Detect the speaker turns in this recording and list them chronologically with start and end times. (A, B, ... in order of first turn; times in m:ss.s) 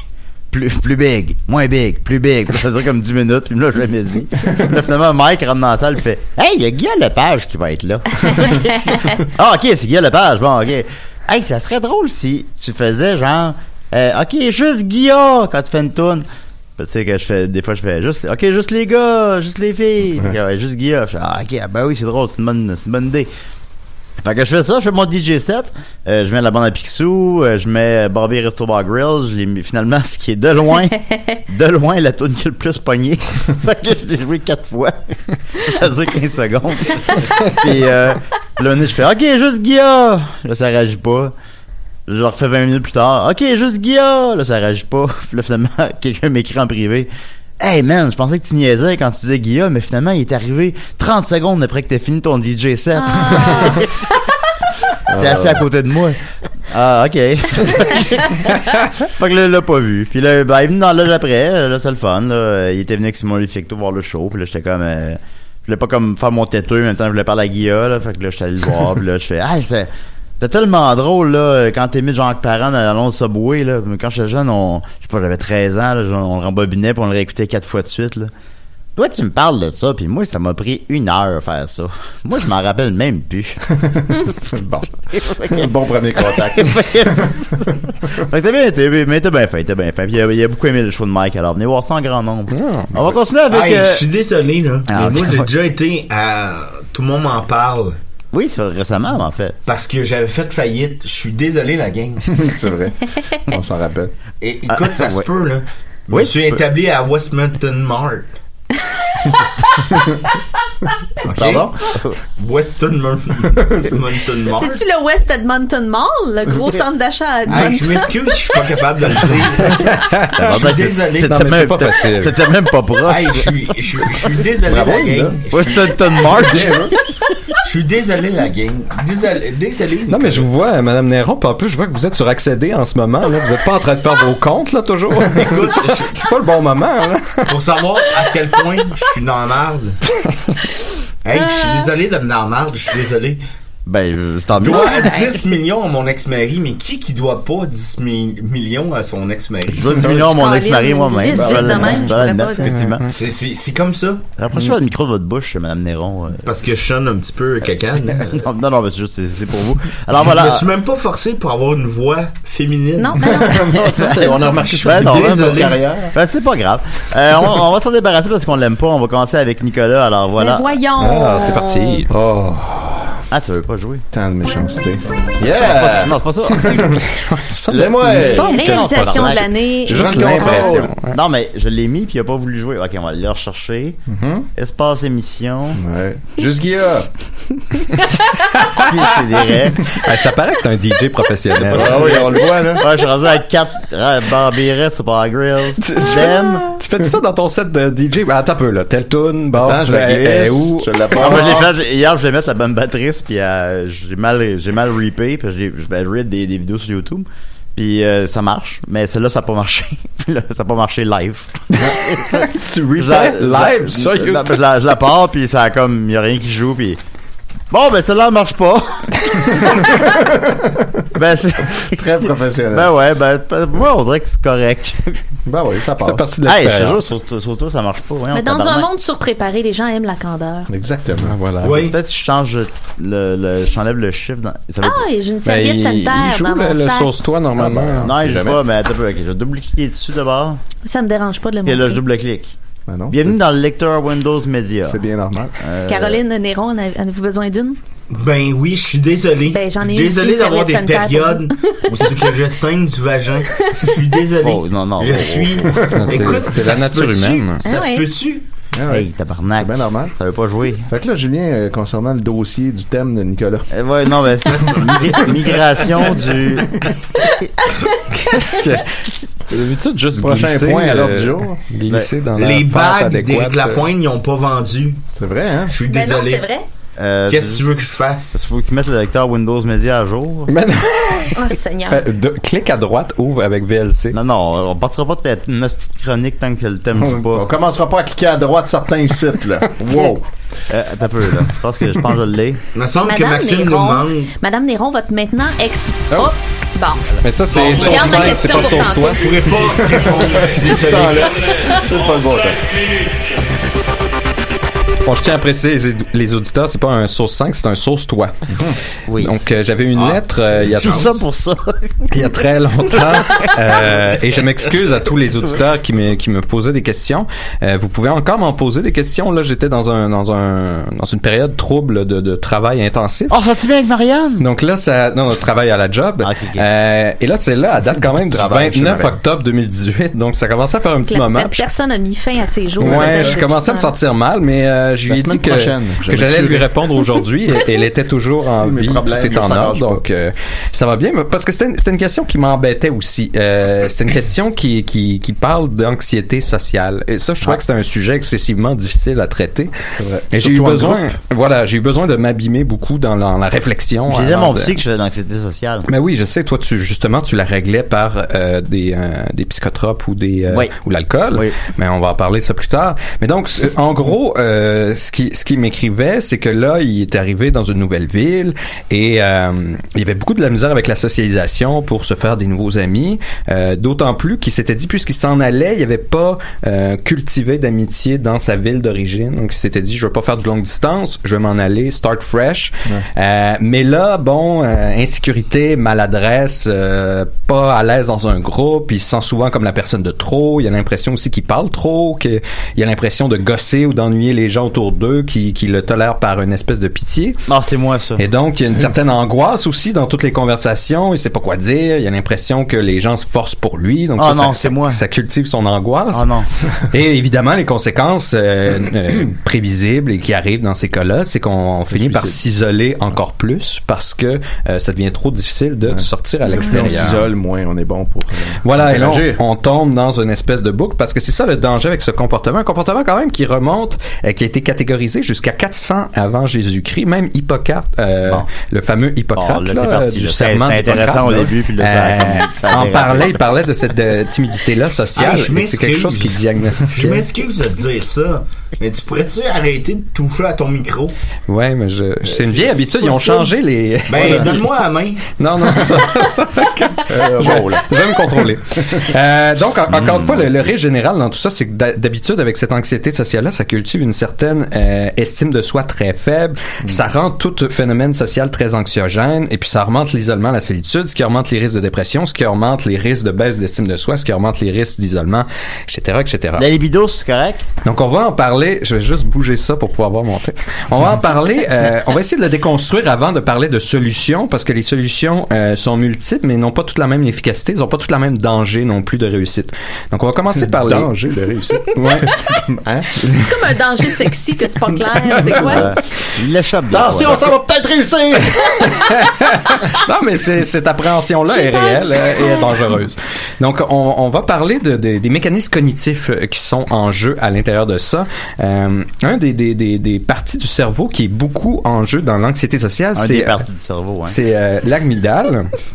0:00.5-0:16.2 A
0:16.8-0:23.3 A
0:24.2-0:41.3 A
0:42.1-0:47.1 A
0:47.6-0:53.9 A
0:53.0-0:54.1 B
0:55.1-0:55.6 C
0:55.1-1:18.3 A
1:19.0-1:23.6 A
1:23.8-1:27.7 C
1:25.2-1:25.7 A
1:26.2-1:34.0 A
1:32.5-1:32.9 D
1:33.5-1:38.0 E
1:34.9-1:35.5 A
1:38.3-1:39.6 A
1:39.6-1:42.3 E
1:42.3-1:44.1 C
1:44.4-1:48.3 E
1:44.7-1:45.3 A
1:46.1-1:46.6 A
1:51.2-1:51.8 E
1:51.3-1:52.2 A
1:51.4-1:51.6 C
1:52.3-1:54.8 E
1:53.6-1:53.9 C
1:54.4-1:58.6 B
1:57.5-1:59.9 E
1:59.7-2:00.6 D
2:00.4-2:03.5 A
2:00.5-2:01.4 E
2:01.2-2:02.5 D
2:03.0-2:06.0 E
2:04.6-2:05.4 C
2:05.5-2:07.0 A
2:06.2-2:06.9 C
2:07.6-2:10.4 E
2:10.1-2:17.6 D
2:15.3-2:16.2 E
2:17.5-2:20.0 E
2:21.2-2:23.4 E
2:21.3-2:21.8 B
2:23.8-2:25.3 A
2:24.6-2:30.1 E
2:24.7-2:25.4 B
2:29.7-2:33.0 A
2:30.2-2:32.7 B
2:31.3-2:32.1 C
2:32.6-2:33.1 D
2:33.0-2:34.2 E
2:34.4-2:36.4 A
2:36.4-2:38.4 E
2:38.3-2:40.7 A
2:40.2-2:43.2 E
2:43.0-2:43.9 B
2:43.2-2:46.1 C
2:43.7-2:50.7 A
2:44.7-2:45.8 E
2:50.4-2:52.0 B
2:51.0-2:52.1 D
2:52.1-2:53.2 C
2:53.3-2:54.0 A
2:54.1-2:57.0 C
2:55.6-2:57.0 A
2:57.1-3:01.2 D
2:57.7-2:58.5 C
2:57.7-2:59.5 A
2:58.2-3:00.8 B
2:59.8-3:00.9 C
3:00.4-3:04.0 A
3:04.1-3:04.5 C
3:04.6-3:05.8 A
3:05.7-3:07.1 C
3:08.0-3:08.3 B
3:08.6-3:09.0 D
3:08.6-3:10.0 A
3:09.9-3:12.2 D
3:11.6-3:16.8 A
3:11.6-3:12.8 C
3:15.8-3:21.5 D
3:19.5-3:21.7 C
3:21.1-3:37.0 A
3:31.7-3:34.6 D
3:37.7-3:40.0 A
3:39.5-3:41.1 C
3:41.1-3:42.0 A
3:41.8-3:42.9 C
3:42.7-3:45.2 A
3:45.4-3:46.3 C
3:46.0-3:47.0 D
3:46.4-3:48.9 A
3:48.3-3:50.7 B
3:50.7-3:51.4 C
3:51.2-3:51.8 D
3:51.6-3:52.0 E
3:51.7-3:55.0 A
3:54.8-3:57.1 B
3:55.4-3:58.1 D
3:57.6-3:58.6 C
3:58.0-4:00.6 A
4:00.8-4:02.0 B
4:01.6-4:02.5 A
4:02.9-4:03.4 C
4:03.1-4:05.0 A
4:04.8-4:05.6 C
4:05.6-4:06.2 A
4:05.9-4:07.8 B
4:08.1-4:18.4 E
4:09.5-4:12.1 B
4:13.6-4:14.0 B
4:14.4-4:15.9 A
4:15.7-4:16.4 C
4:16.0-4:17.6 D
4:17.6-4:18.1 B
4:18.7-4:20.1 C
4:18.9-4:20.9 A
4:20.9-4:23.7 C
4:23.7-4:26.9 A
4:27.2-4:28.6 B
4:28.1-4:28.9 D
4:29.5-4:33.8 D
4:30.1-4:31.6 C
4:32.4-4:35.0 E
4:35.1-4:35.8 C
4:35.7-4:36.5 E
4:35.8-4:36.6 B
4:37.0-4:37.7 A
4:37.3-4:38.4 E
4:38.3-4:40.5 A
4:40.5-4:44.2 D
4:41.3-4:42.0 B
4:44.1-4:47.4 A
4:46.9-4:50.3 C
4:49.9-4:50.1 A
4:50.7-4:52.6 A
4:52.7-4:54.3 E
4:53.0-4:57.1 B
4:57.2-4:59.4 D
4:57.5-5:01.5 E
4:57.6-4:59.2 B
4:59.7-5:03.0 C
5:05.0-5:08.3 D
5:09.1-5:09.3 A
5:09.2-5:11.1 D
5:09.9-5:10.2 E
5:10.8-5:14.0 A
5:10.8-5:11.1 E
5:12.1-5:23.4 D
5:23.3-5:24.4 A
5:24.4-5:31.6 D
5:26.2-5:26.6 A
5:28.2-5:29.2 C
5:31.1-5:33.9 B
5:32.8-5:33.4 C
5:32.8-5:49.7 D
5:35.0-5:36.8 C
5:38.4-5:40.0 C
5:50.0-5:51.2 C
5:50.3-5:54.8 D
5:54.1-5:55.9 A
5:55.9-6:37.4 D
6:37.5-6:38.2 A
6:38.2-6:57.2 D
6:44.2-6:45.0 A
6:46.1-6:46.5 A
6:51.9-6:52.4 C
6:55.9-6:59.4 C
6:56.5-6:56.8 B
6:58.6-7:17.3 D
7:09.4-7:13.4 A
7:15.2-7:21.1 E
7:21.5-7:24.6 D
7:22.5-7:23.3 E
7:24.1-7:25.3 E
7:24.2-7:24.4 C
7:25.3-7:46.7 D
7:27.1-7:29.1 C
7:29.9-7:30.7 A
7:46.6-7:47.6 A
7:47.8-8:01.1 D
8:00.5-8:03.4 C
8:01.9-8:02.5 D
8:03.2-8:05.9 B
8:05.5-8:05.9 C
8:05.6-8:07.5 A
8:06.9-8:09.0 C
8:08.8-8:23.6 D
8:11.5-8:12.8 B
8:23.1-8:24.4 A
8:24.3-8:25.7 D